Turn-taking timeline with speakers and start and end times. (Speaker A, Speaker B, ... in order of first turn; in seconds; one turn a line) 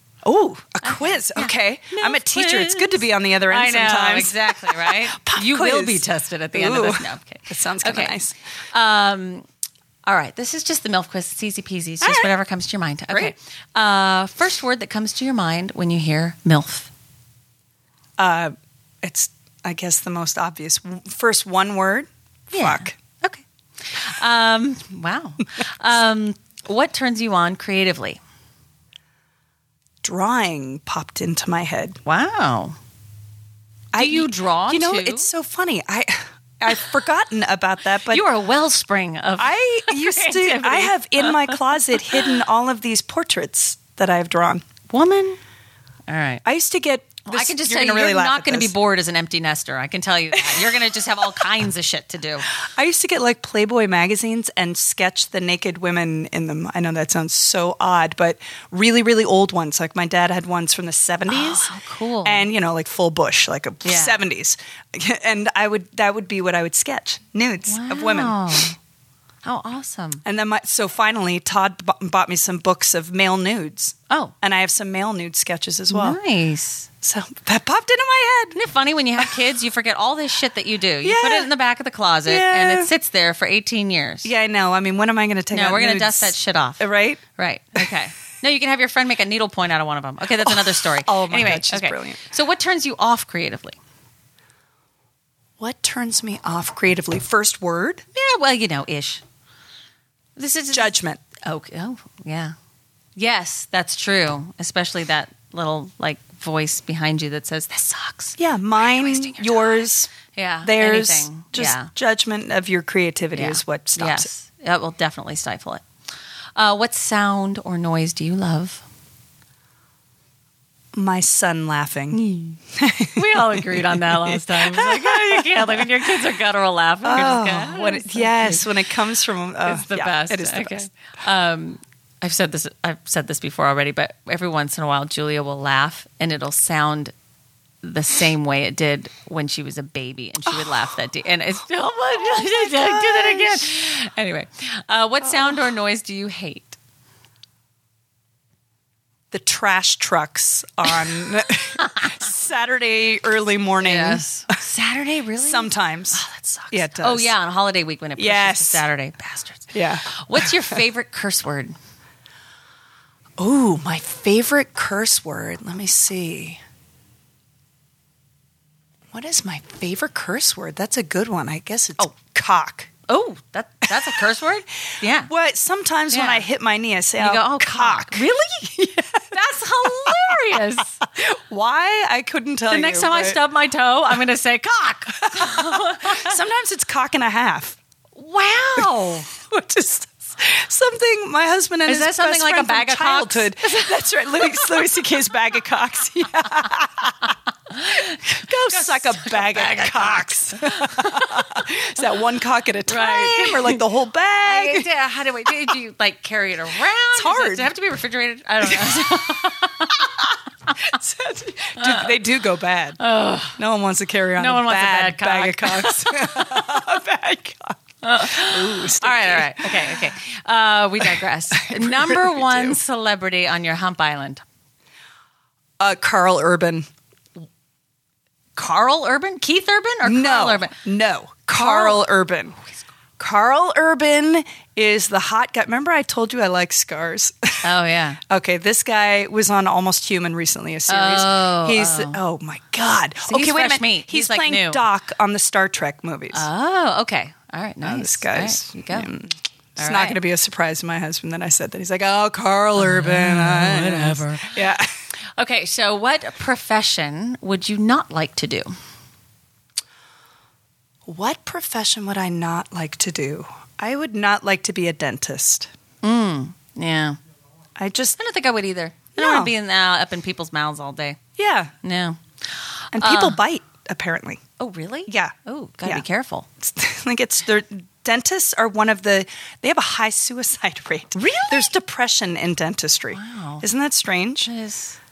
Speaker A: 0.2-8.3
Speaker B: 0.8-8.2
Speaker B: 8.7-9.4
Speaker B: 10.1-16.9
Speaker A: 12.0-12.3
Speaker A: 18.2-22.9
Speaker B: 22.5-28.2
Speaker A: 30.0-32.0
Speaker B: 32.0-32.8
Speaker A: 33.9-38.2
Speaker B: 34.0-35.3
Speaker B: 38.1-42.3
Speaker A: 39.4-44.6
Speaker B: 44.9-45.4
Speaker B: 46.1-46.4
Speaker A: 46.4-48.7
Speaker B: 47.3-52.5
Speaker A: 50.4-51.4
Speaker A: 52.6-61.7
Speaker B: 61.3-62.5
Speaker A: 62.2-68.7
Speaker B: 63.9-64.2
Speaker B: 67.7-68.8
Speaker B: 69.4-70.2
Speaker A: 70.2-76.2
Speaker B: 75.9-76.9
Speaker A: 77.0-78.6
Speaker B: 78.5-84.3
Speaker A: 81.0-81.5
Speaker A: 82.3-82.9
Speaker A: 84.2-87.2
Speaker B: 85.5-86.8
Speaker B: 87.4-93.8
Speaker A: 90.4-92.3
Speaker A: 95.6-98.0
Speaker B: 98.1-99.2
Speaker B: 100.4-102.5
Speaker A: 100.7-101.2
Speaker B: 103.2-108.4
Speaker A: 108.4-114.3
Speaker B: 109.0-109.5
Speaker B: 110.3-111.9
Speaker B: 113.3-115.8
Speaker B: 116.6-118.8
Speaker A: 120.9-122.2
Speaker B: 122.1-122.6
Speaker A: 122.7-125.9
Speaker B: 123.1-128.7
Speaker A: 127.0-130.9
Speaker B: 129.7-137.1
Speaker B: 137.8-146.8
Speaker A: 140.5-140.9
Speaker A: 142.2-143.7
Speaker A: 145.2-145.7
Speaker A: 149.3-154.2
Speaker B: 151.8-152.3
Speaker B: 153.8-161.8
Speaker A: 155.4-157.3
Speaker A: 158.2-158.8
Speaker A: 159.7-160.8
Speaker A: 163.4-166.6
Speaker A: 169.1-172.9
Speaker B: 173.1-175.3
Speaker A: 173.9-174.2
Speaker A: 175.3-179.3
Speaker B: 176.1-176.5
Speaker B: 177.2-181.0
Speaker A: 179.8-183.4
Speaker B: 182.7-186.4
Speaker A: 185.2-187.8
Speaker B: 188.2-189.3
Speaker A: 188.8-197.3
Speaker B: 191.9-194.8
Speaker B: 197.3-201.7
Speaker A: 197.9-204.9
Speaker B: 202.9-203.8
Speaker B: 204.4-210.9
Speaker A: 205.5-205.8
Speaker A: 207.1-207.7
Speaker A: 208.6-210.1
Speaker A: 210.8-213.0
Speaker B: 211.8-212.1
Speaker B: 213.0-213.6
Speaker A: 213.6-220.1
Speaker B: 214.4-216.7
Speaker B: 218.0-224.4
Speaker A: 221.0-222.8
Speaker A: 225.8-226.9
Speaker B: 228.6-230.8
Speaker A: 230.0-232.6
Speaker B: 231.6-232.0
Speaker A: 233.2-237.6
Speaker B: 237.6-238.2
Speaker A: 238.3-246.5
Speaker B: 240.9-242.2
Speaker B: 243.3-244.8
Speaker B: 246.3-249.1
Speaker A: 247.8-254.9
Speaker B: 249.8-250.2
Speaker B: 252.8-254.6
Speaker B: 255.4-258.7
Speaker A: 261.1-265.7
Speaker B: 266.0-267.2
Speaker A: 267.8-268.2
Speaker B: 268.2-271.2
Speaker A: 269.1-269.5
Speaker A: 271.4-271.7
Speaker B: 271.8-272.2
Speaker B: 272.9-273.4
Speaker A: 272.9-274.4
Speaker B: 274.6-276.5
Speaker A: 275.1-275.3
Speaker A: 276.6-284.5
Speaker B: 281.1-281.7
Speaker B: 283.1-283.6
Speaker B: 284.4-285.0